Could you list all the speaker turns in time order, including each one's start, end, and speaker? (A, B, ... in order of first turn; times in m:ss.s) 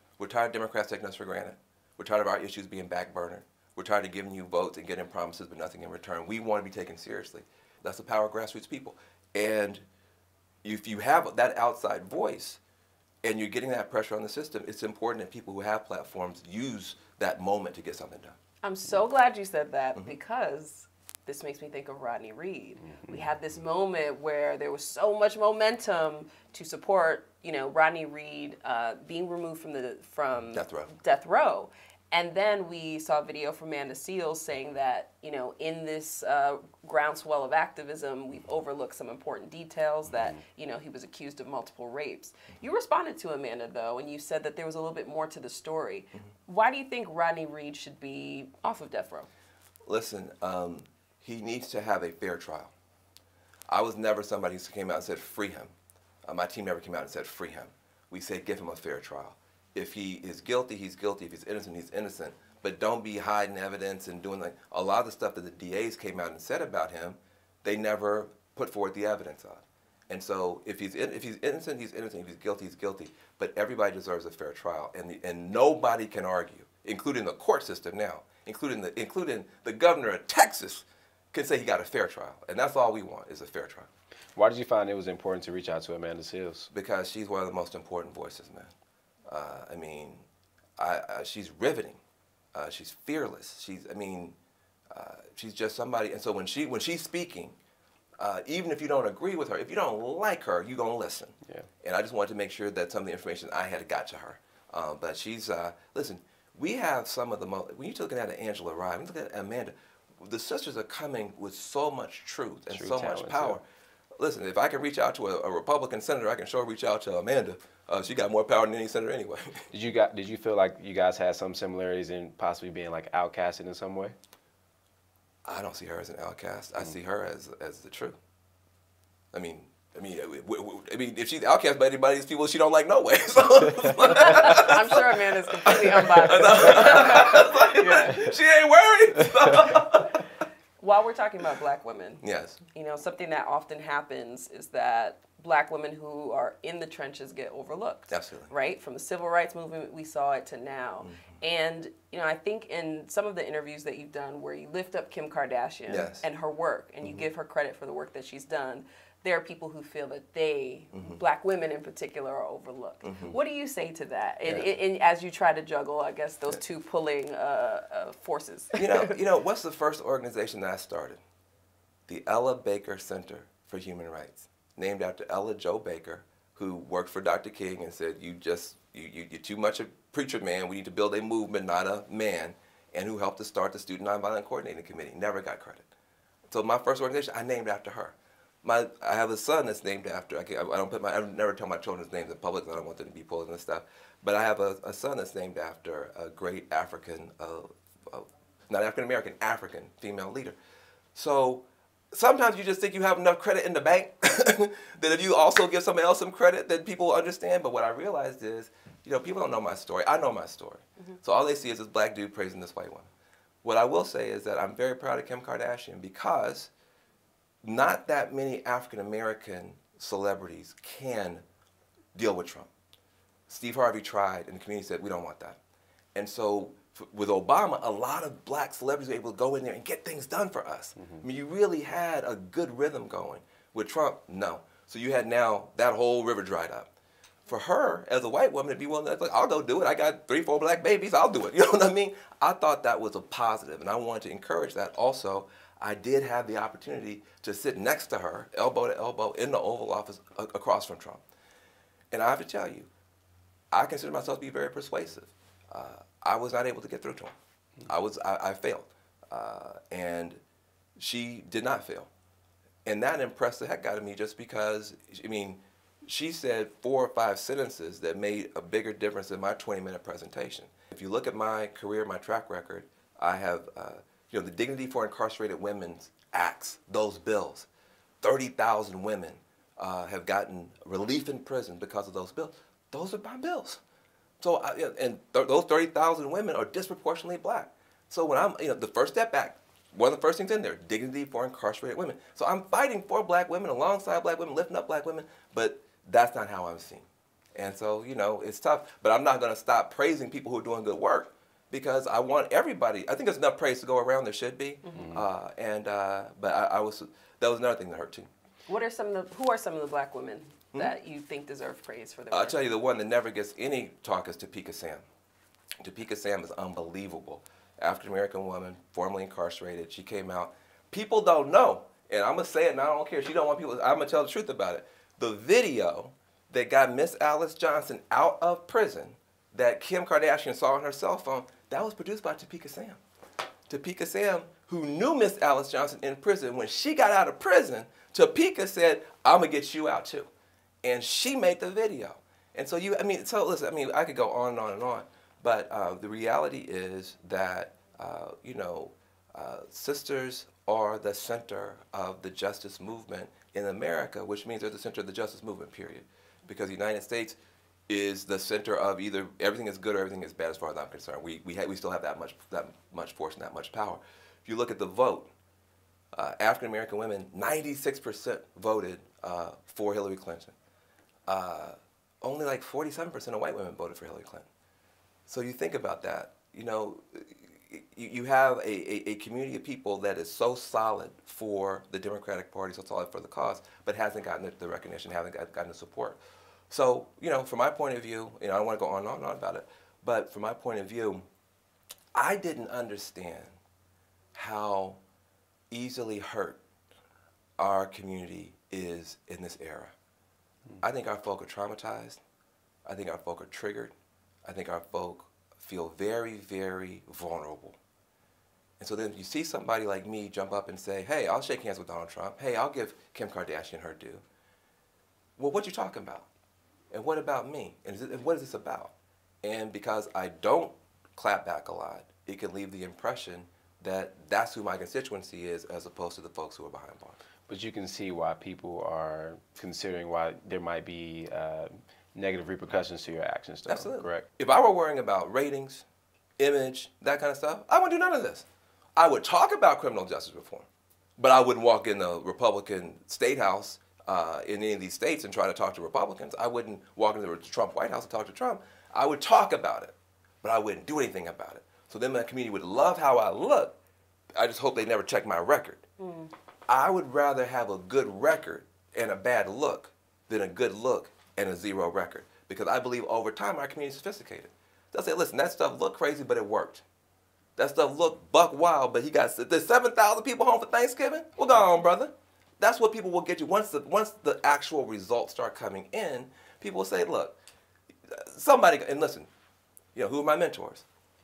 0:00.2-0:09.8 A
0:10.6-0:12.6 A
0:13.2-0:18.4 A
0:18.6-0:49.3 B
0:23.0-0:23.3 C
0:30.5-0:30.9 A
0:49.8-0:52.7 A
0:53.7-0:55.7 A
0:56.2-1:23.9 A
1:24.4-1:26.7 C
1:26.7-1:28.7 A
1:29.3-1:30.2 A
1:30.8-1:32.0 A
1:32.5-1:34.4 A
1:34.9-1:37.6 A
1:38.2-1:53.6 A
1:52.7-1:53.6 C
1:54.2-1:59.7 A
1:59.7-2:04.1 C
2:05.4-2:08.2 A
2:09.3-2:20.3 A
2:14.1-2:18.2 B
2:20.8-2:49.1 B
2:22.2-2:22.6 A
2:28.1-2:28.5 A
2:35.9-2:36.2 A
2:40.9-2:41.2 A
2:43.0-2:43.3 A
2:48.7-2:51.2 A
2:52.1-3:05.9 A
3:06.5-3:20.6 A
3:21.1-3:33.1 A
3:33.6-3:36.7 A
3:37.6-3:41.4 A
3:42.1-3:42.7 A
3:43.5-3:45.6 A
3:46.1-3:56.9 A
3:51.0-3:51.2 C
3:57.5-4:11.2 A
4:12.1-4:12.9 A
4:13.7-4:17.3 A
4:17.8-4:20.4 A
4:21.0-4:22.1 A
4:22.8-4:37.7 A
4:38.2-4:43.8 A
4:44.4-5:08.3 A
5:04.9-5:05.2 C
5:08.7-5:12.6 B
5:12.3-5:15.0 A
5:15.8-5:33.0 A
5:33.7-5:40.3 A
5:40.8-6:05.3 A
6:06.1-6:10.5 A
6:11.3-6:14.4 A
6:15.3-6:26.2 A
6:26.7-6:31.2 A
6:32.1-6:33.5 A
6:34.3-6:35.0 A
6:35.7-6:36.6 A
6:37.6-6:39.9 A
6:40.8-6:42.2 A
6:42.8-6:43.9 A
6:44.4-6:47.8 A
6:48.8-6:54.2 A
6:55.4-6:56.3 A
6:56.9-7:07.2 A
7:07.5-7:14.2 C
7:13.7-7:15.8 A
7:16.4-7:20.7 A
7:21.2-7:33.7 A
7:34.3-7:35.8 A
7:36.0-7:36.3 B
7:36.7-7:46.8 A
7:47.6-7:57.4 A
7:58.1-7:59.3 A
7:59.9-8:00.8 A